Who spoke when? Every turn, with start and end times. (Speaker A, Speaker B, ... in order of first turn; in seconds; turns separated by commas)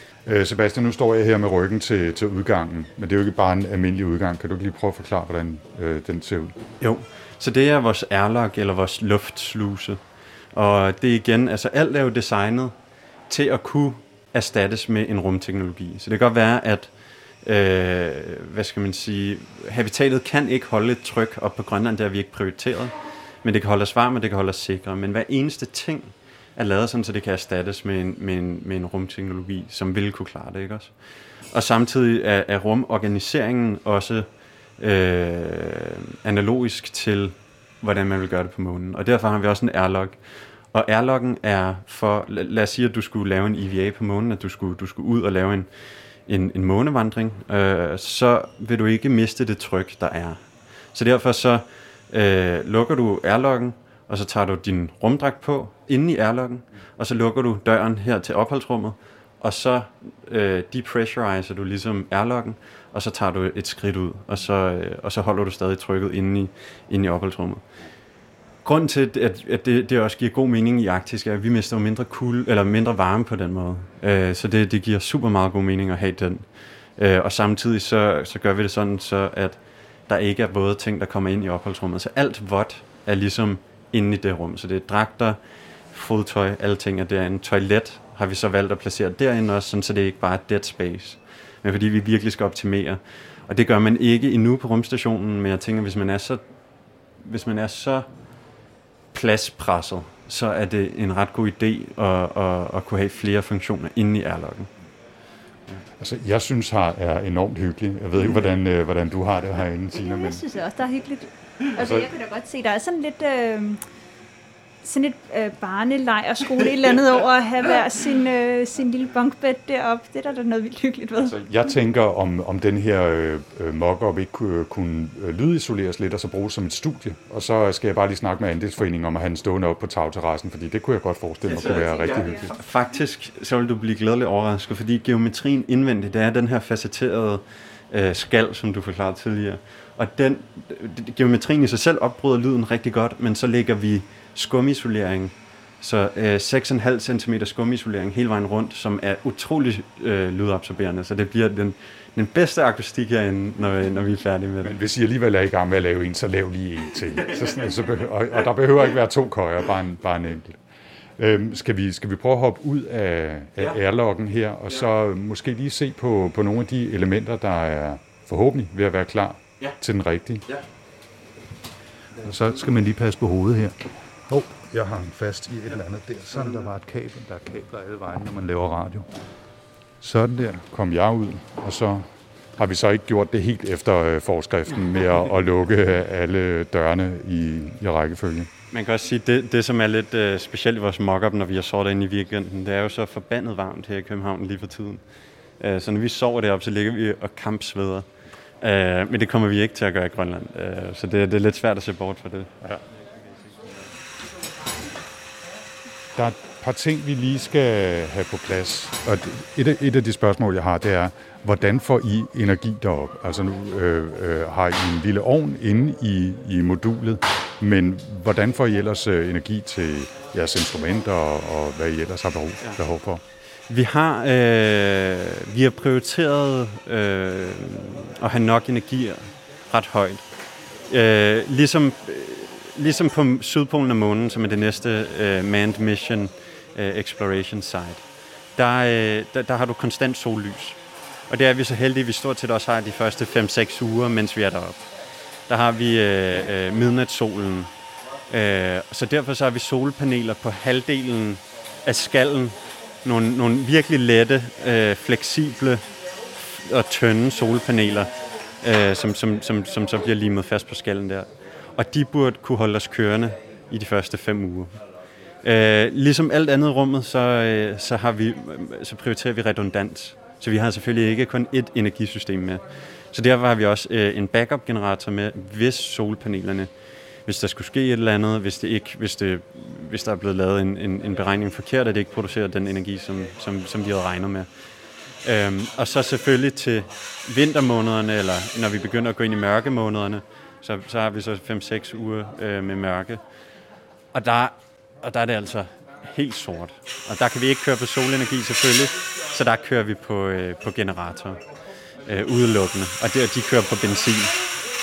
Speaker A: 0.2-6.5, Speaker B: 6.8-10.0, Speaker B: 10.5-12.7, Speaker B: 13.3-16.9, Speaker B: 17.4-30.9, Speaker B: 31.5-34.3, Speaker B: 34.8-40.2, Speaker B: 40.7-45.7, Speaker B: 46.3-50.4, Speaker B: 50.9-67.6, Speaker B: 68.6-76.4, Speaker B: 77.0-85.4, Speaker B: 85.9-96.4, Speaker B: 97.2-98.1, Speaker B: 99.1-104.7, Speaker A: 106.0-110.4, Speaker C: 110.0-113.8, Speaker A: 111.8-112.1, Speaker C: 114.8-121.4, Speaker A: 121.2-132.5, Speaker B: 131.5-154.8, Speaker A: 154.6-160.6, Speaker A: 161.2-170.5, Speaker A: 172.2-179.1, Speaker A: 180.0-182.1, Speaker A: 182.6-188.5, Speaker B: 188.7-195.0, Speaker B: 195.6-198.1, Speaker B: 198.6-202.5, Speaker A: 206.2-223.2, Speaker B: 223.7-230.2, Speaker B: 230.9-238.0, Speaker B: 238.6-240.8, Speaker B: 241.3-244.8, Speaker B: 245.5-247.7, Speaker B: 248.3-255.8, Speaker B: 256.4-258.1, Speaker B: 258.6-264.8, Speaker B: 265.4-276.7, Speaker B: 277.3-284.5, Speaker B: 285.2-293.2, Speaker B: 294.1-301.4, Speaker B: 302.1-304.4